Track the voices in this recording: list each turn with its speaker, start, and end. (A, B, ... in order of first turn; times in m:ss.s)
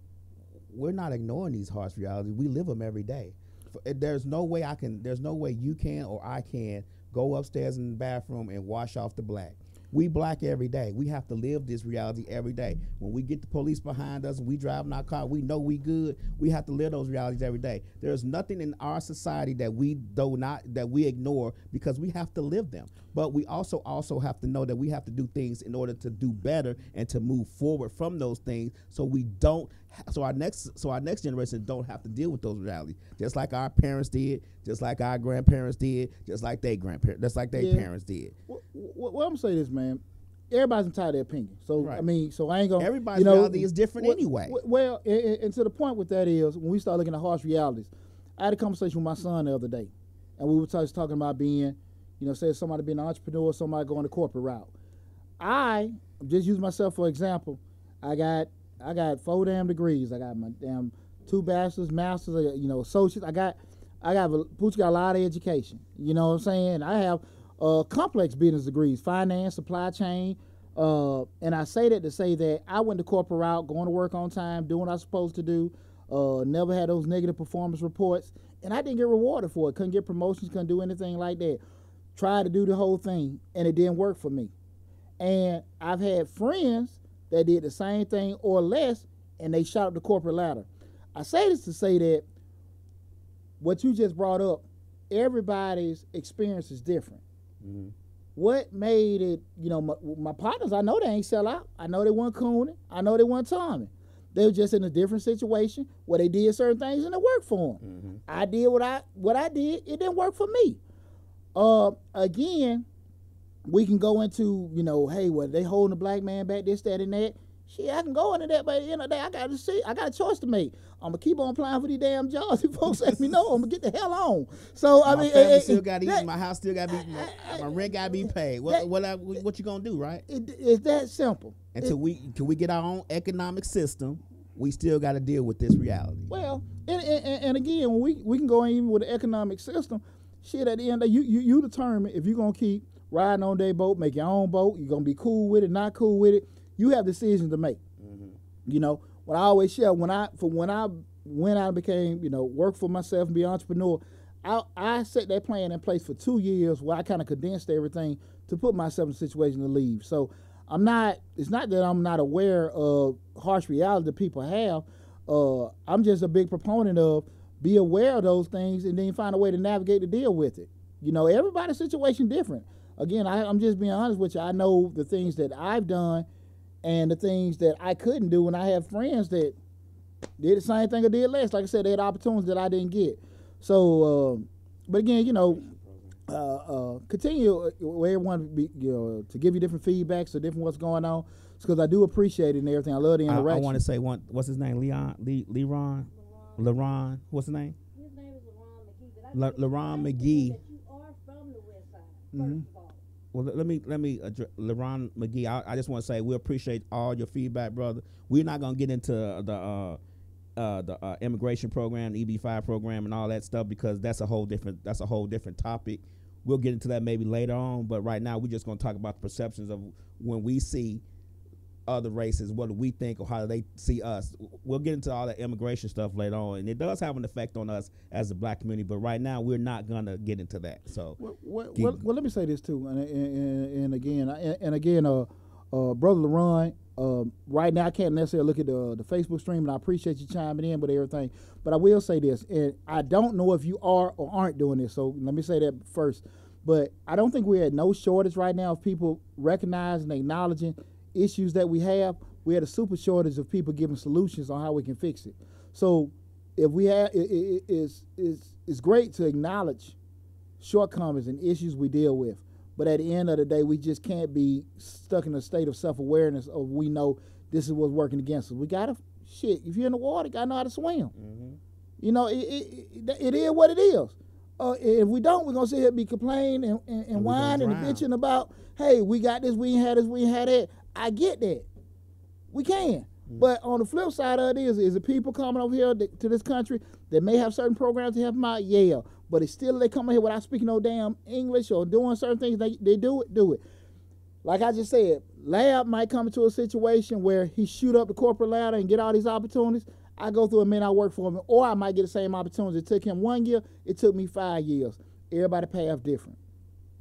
0:00.7-0:38.4 A
0:37.6-0:37.9 B
0:38.5-0:54.7 B
0:41.8-0:42.1 A
0:42.8-0:44.6 A
0:55.4-1:21.6 B
1:22.2-1:24.5 B
1:25.2-1:32.2 B
1:33.6-1:37.2 B
1:37.6-1:37.9 A
1:38.4-1:50.8 B
1:47.8-1:48.2 A
1:51.6-1:52.8 B
1:53.7-2:06.3 B
2:05.0-2:10.2 A
2:07.0-2:08.1 B
2:10.3-2:11.9 B
2:11.7-2:16.3 A
2:16.3-2:27.8 B
2:28.0-2:28.4 A
2:28.7-2:56.2 B
2:56.8-2:59.6 B
3:00.4-3:05.7 B
3:05.6-3:06.0 A
3:06.3-3:13.8 B
3:13.3-3:17.8 A
3:16.1-3:16.9 C
3:17.9-3:23.0 C
3:19.3-3:20.6 A
3:22.3-3:22.6 B
3:23.3-3:30.0 A
3:30.6-3:41.0 A
3:41.9-3:51.2 A
3:51.2-4:20.0 B
3:51.8-3:52.0 A
4:20.6-4:31.1 B
4:31.2-4:31.6 A
4:32.0-4:41.7 B
4:37.1-4:38.0 A
4:42.5-4:53.6 B
4:54.4-5:06.4 B